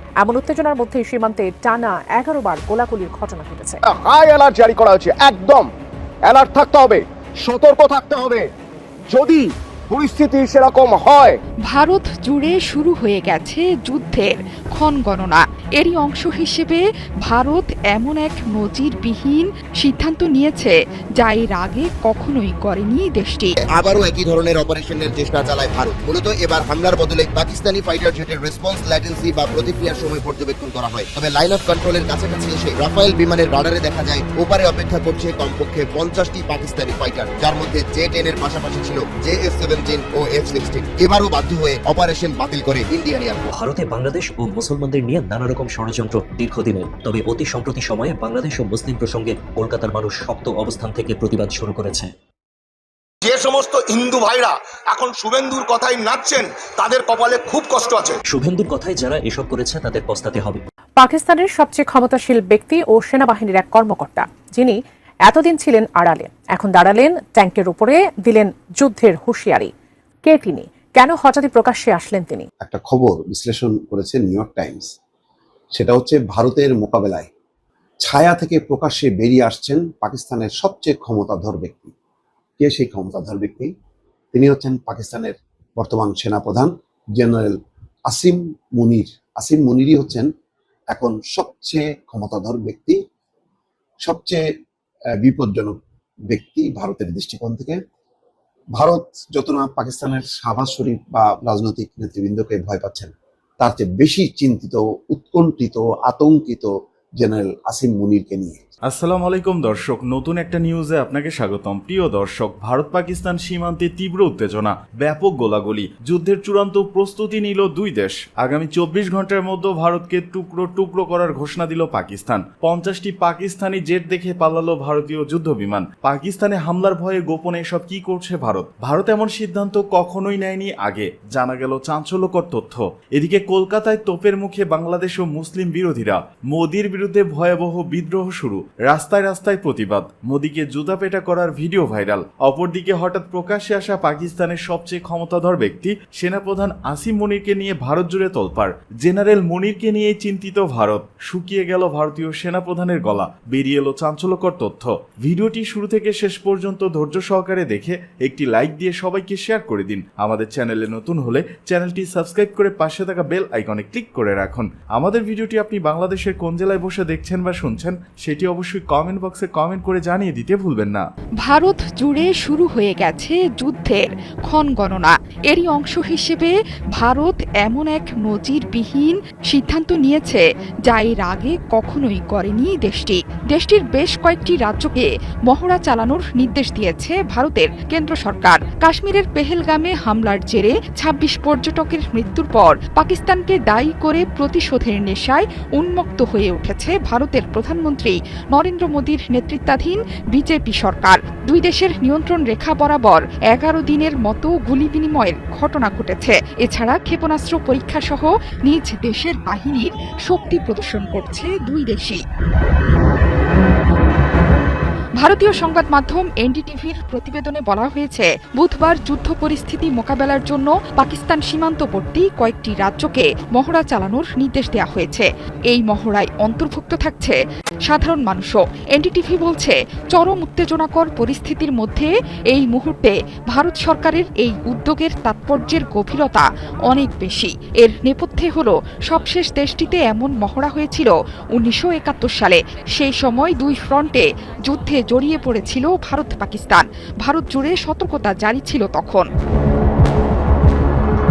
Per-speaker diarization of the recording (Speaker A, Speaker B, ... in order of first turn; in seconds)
Speaker A: 0.2-3.8, 61.0-69.7, 70.2-72.5
Speaker B: 3.9-5.7, 6.2-8.5, 9.1-11.4
Speaker C: 11.7-23.5, 171.4-212.2, 215.2-249.2
Speaker D: 23.7-43.5
Speaker E: 43.5-52.1, 58.3-60.6
Speaker F: 53.2-58.1
Speaker G: 72.6-74.9, 75.7-77.3, 78.0-81.9, 82.6-83.7, 84.3-87.5, 88.1-90.3, 90.9-93.0, 94.0-94.4, 95.2-95.8, 96.3-97.8, 98.7-108.6
Speaker H: 108.8-171.1